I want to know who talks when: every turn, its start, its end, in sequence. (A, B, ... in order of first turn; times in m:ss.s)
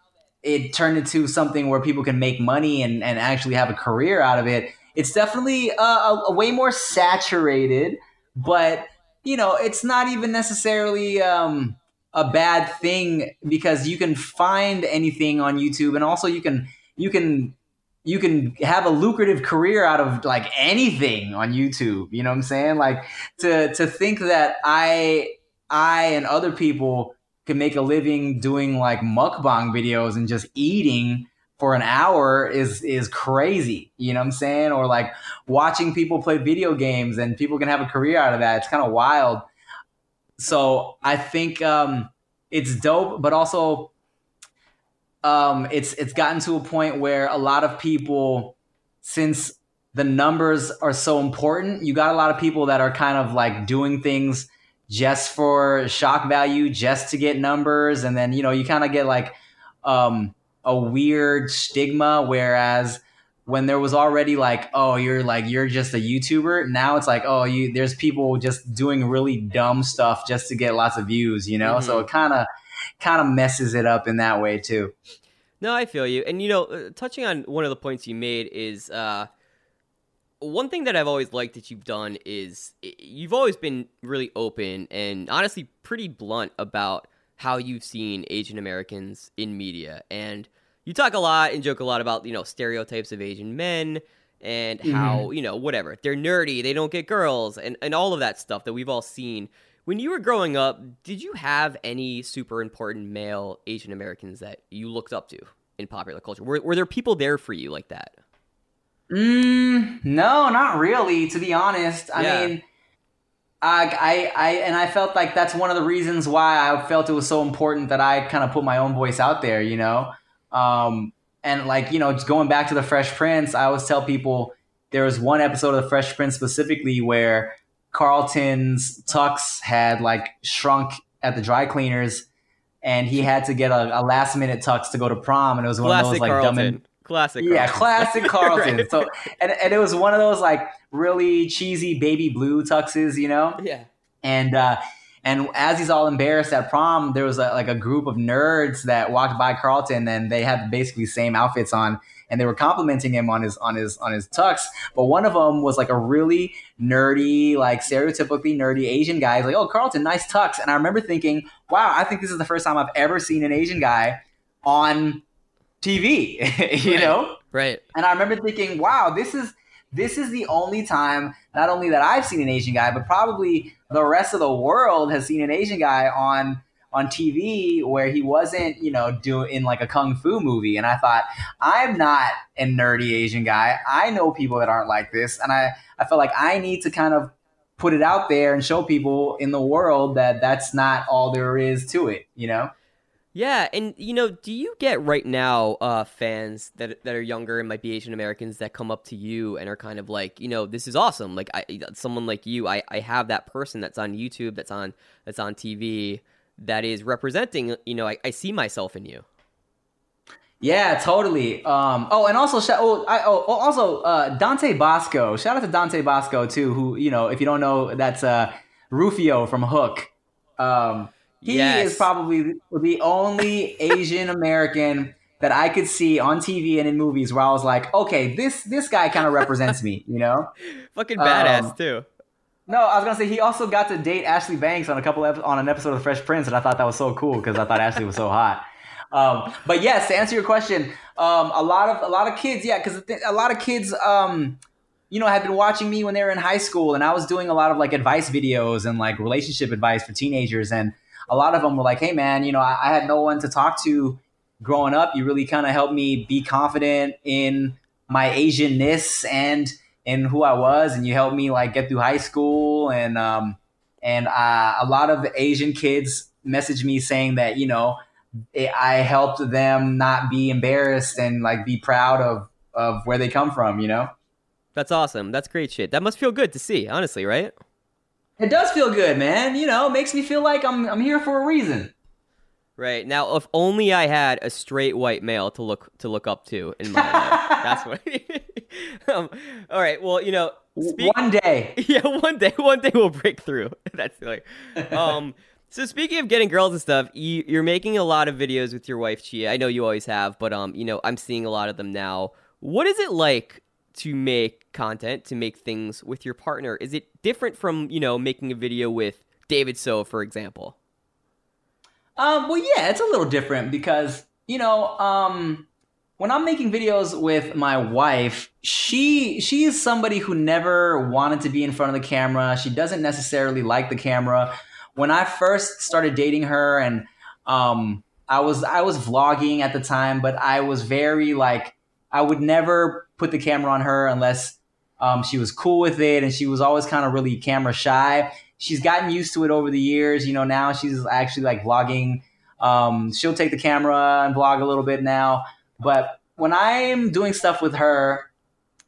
0:00.4-0:39.5 A
0:40.4-0:43.9 A
0:45.2-1:12.5 A
1:11.6-1:12.1 B
1:13.0-1:14.9 A
1:15.6-1:19.3 B
1:20.4-1:48.2 B
1:34.8-1:35.3 A
1:49.1-1:52.6 A
1:52.2-1:52.5 B
1:53.6-2:12.3 A
2:12.8-2:16.8 A
2:15.8-2:19.0 B
2:17.4-2:23.6 A
2:23.6-2:23.9 B
2:24.2-2:45.2 A
2:45.8-2:47.4 A
2:46.9-2:47.8 B
2:47.9-3:12.7 A
3:13.4-3:29.2 B
3:30.6-3:50.5 A
3:41.4-3:42.1 B
3:51.0-3:52.1 B
3:51.2-3:51.8 A
3:52.7-4:04.6 A
4:05.1-4:28.0 A
4:28.5-4:34.1 A
4:34.8-4:37.6 B
4:38.4-4:41.9 A
4:42.8-4:51.2 B
4:47.0-4:47.8 A
4:50.8-4:51.8 A
4:51.8-5:10.8 B
5:12.2-5:15.7 A
5:16.2-5:48.3 A